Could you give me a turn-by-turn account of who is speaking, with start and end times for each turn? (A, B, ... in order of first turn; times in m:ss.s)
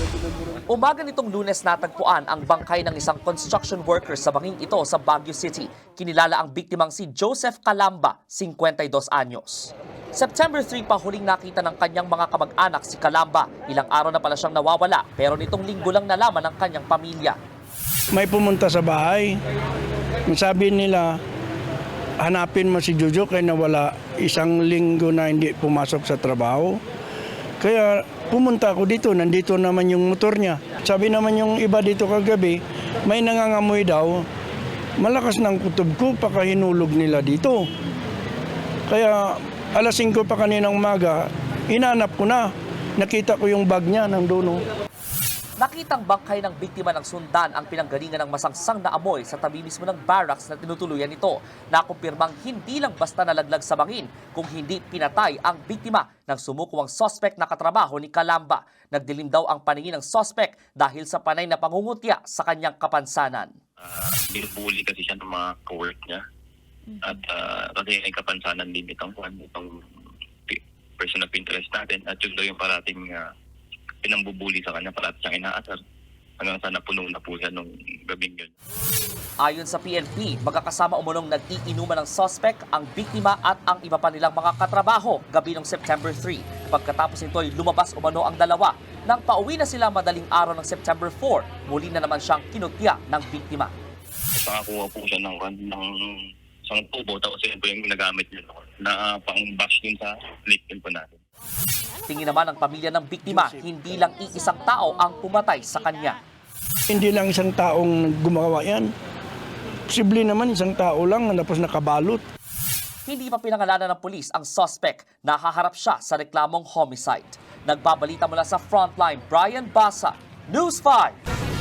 0:00.7-0:17.4 A
0:18.1-0:19.4 B
0:20.3-0:21.2 B
0:22.2-0:26.8 B
0:27.6-0:34.2 B
0:35.0-0:37.7 B
0:38.9-0:44.6 B
0:45.6-1:03.5 A
1:03.8-1:06.2 C
1:07.0-1:09.7 C
1:10.5-1:13.3 C
1:14.0-1:15.8 C
1:16.4-1:18.5 C
1:19.4-1:33.7 A
1:34.4-1:36.2 C
1:36.7-1:41.2 C
1:42.1-1:46.2 A
1:46.9-1:48.9 B
1:49.9-1:52.2 B
1:53.1-2:01.2 A